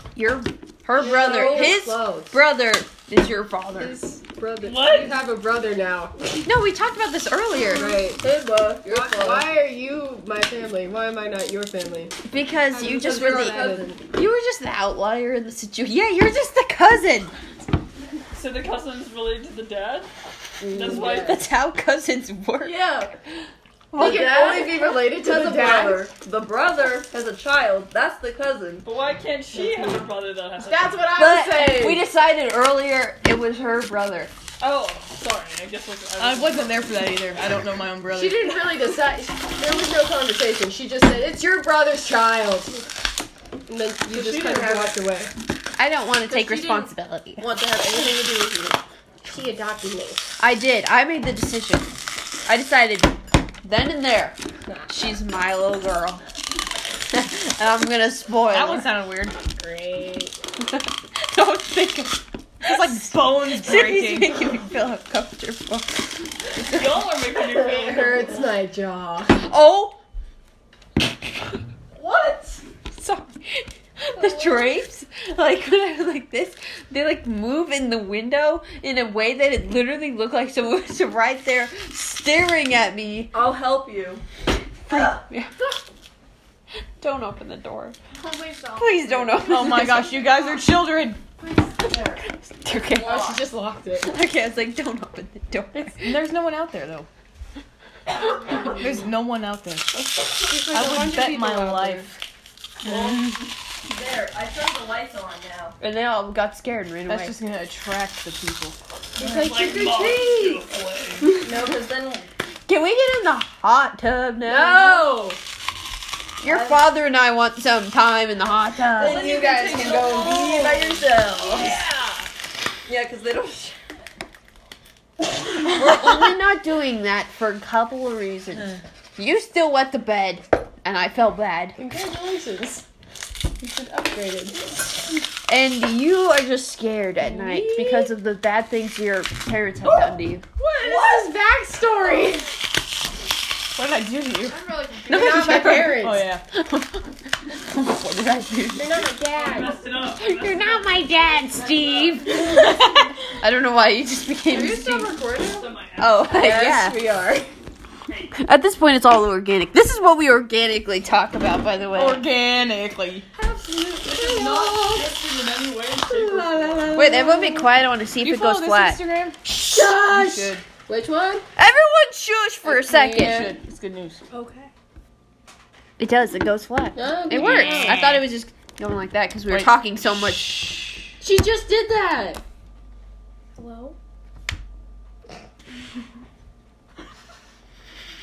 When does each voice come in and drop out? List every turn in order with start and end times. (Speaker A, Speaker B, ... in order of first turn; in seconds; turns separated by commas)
Speaker A: 0.1-4.0, Speaker B: 1.0-2.4, Speaker C: 1.1-1.8, Speaker B: 3.8-6.2, Speaker D: 4.6-5.2, Speaker A: 6.4-8.0, Speaker B: 7.7-8.2, Speaker C: 8.2-9.5, Speaker B: 8.8-12.2, Speaker A: 12.2-17.3, Speaker B: 12.7-14.0, Speaker D: 18.3-20.1, Speaker B: 20.6-21.4, Speaker D: 20.7-21.4, Speaker A: 20.9-22.8, Speaker C: 22.6-23.2, Speaker A: 23.9-24.7, Speaker C: 24.0-28.9, Speaker B: 24.0-26.1, Speaker D: 28.9-31.1, Speaker B: 29.6-30.0, Speaker B: 30.6-32.0, Speaker A: 31.1-34.3, Speaker D: 34.6-36.9, Speaker E: 36.2-38.6, Speaker B: 38.1-42.8, Speaker B: 43.7-45.3, Speaker C: 44.1-44.9, Speaker A: 45.8-47.5, Speaker B: 46.3-46.9, Speaker C: 47.4-48.8, Speaker B: 49.2-50.2, Speaker A: 50.4-51.9, Speaker A: 52.5-56.2, Speaker A: 57.1-58.9, Speaker E: 58.5-59.4, Speaker B: 59.5-60.4, Speaker A: 60.6-67.0, Speaker E: 62.6-64.4, Speaker D: 66.6-68.5, Speaker B: 67.5-69.4, Speaker A: 69.4-70.0, Speaker C: 72.0-72.6, Speaker A: 72.9-83.3, Speaker F: 74.2-74.5, Speaker C: 83.3-84.2, Speaker A: 84.9-85.5, Speaker C: 84.9-85.2, Speaker A: 87.0-88.0, Speaker F: 88.2-90.7, Speaker A: 88.8-90.2, Speaker E: 89.4-91.2, Speaker B: 91.8-92.2, Speaker A: 92.2-93.4, Speaker B: 93.0-94.1, Speaker C: 93.0-93.4, Speaker A: 94.0-96.2, Speaker E: 95.7-97.1, Speaker E: 98.7-100.1, Speaker B: 100.4-102.1, Speaker E: 100.7-102.2, Speaker D: 102.8-103.5, Speaker E: 102.9-103.3, Speaker C: 103.9-105.8, Speaker A: 105.8-107.4, Speaker E: 107.1-108.8, Speaker B: 109.2-110.6, Speaker D: 109.3-111.3, Speaker C: 111.3-112.3, Speaker A: 112.7-115.2, Speaker B: 114.4-115.4, Speaker A: 116.4-119.3, Speaker C: 116.5-116.8, Speaker C: 119.0-121.8, Speaker B: 119.0-121.1, Speaker D: 119.6-120.3, Speaker D: 121.4-122.3, Speaker C: 122.9-123.8, Speaker A: 125.7-131.8, Speaker B: 131.8-132.8, Speaker B: 133.6-134.8, Speaker A: 135.5-140.4, Speaker B: 137.2-138.1, Speaker B: 140.6-142.5, Speaker E: 143.8-144.6, Speaker F: 144.4-145.7, Speaker A: 145.1-149.1, Speaker B: 145.1-146.3, Speaker E: 145.4-146.4, Speaker B: 148.7-149.8, Speaker D: 149.4-151.4, Speaker A: 150.1-155.2, Speaker B: 154.5-155.7, Speaker D: 155.4-156.5, Speaker A: 156.0-157.0, Speaker B: 156.3-157.5, Speaker D: 158.1-158.3, Speaker A: 158.4-162.3, Speaker E: 161.9-163.3, Speaker B: 163.3-165.2, Speaker D: 164.1-167.1, Speaker B: 166.1-167.7, Speaker A: 166.9-169.0, Speaker E: 168.2-169.4, Speaker B: 169.5-171.5, Speaker E: 170.2-170.6, Speaker A: 171.6-173.5, Speaker B: 172.7-173.6, Speaker E: 173.2-174.2, Speaker F: 174.3-174.7, Speaker A: 176.0-181.1, Speaker B: 176.9-178.0, Speaker E: 177.3-178.3, Speaker B: 181.2-182.4, Speaker F: 183.6-184.0